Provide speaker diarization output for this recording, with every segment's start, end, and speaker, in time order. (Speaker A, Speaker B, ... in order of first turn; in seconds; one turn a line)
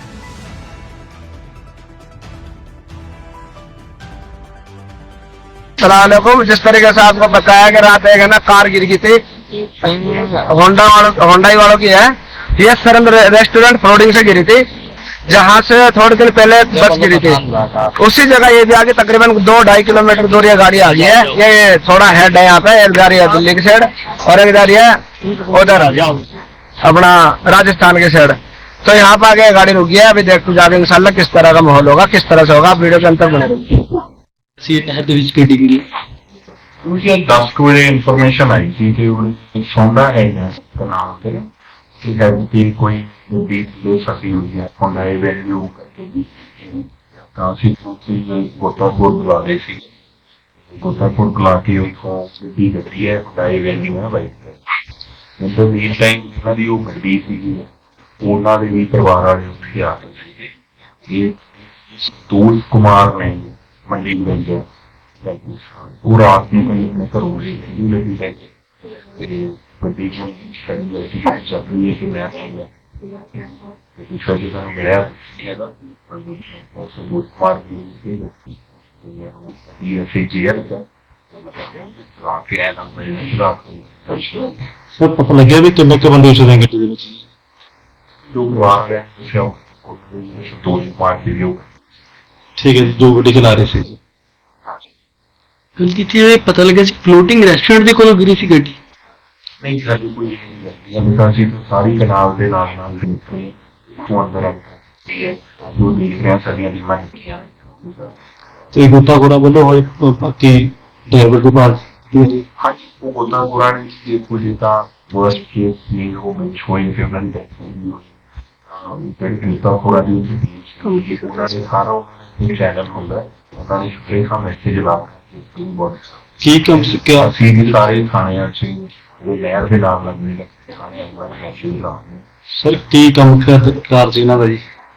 Speaker A: 5.8-14.7
Speaker A: 15.3-17.4
Speaker B: 16.8-17.9
Speaker A: 18.0-26.3
Speaker A: 26.8-33.9
Speaker B: 34.6-35.8
Speaker C: 36.8-41.5
Speaker C: 42.0-49.9
Speaker C: 50.7-54.6
Speaker C: 55.4-57.7
Speaker C: 58.2-60.5
Speaker C: 61.1-64.7
Speaker C: 65.2-68.5
Speaker C: 69.1-84.6
Speaker B: 85.0-87.2
Speaker C: 88.3-91.7
Speaker B: 92.6-94.0
Speaker D: 95.8-98.8
Speaker C: 99.6-108.1
Speaker B: 108.7-112.4
Speaker C: 112.6-118.1
Speaker C: 118.7-126.1
Speaker B: 126.4-128.0
Speaker C: 126.7-132.2
Speaker B: 132.6-134.6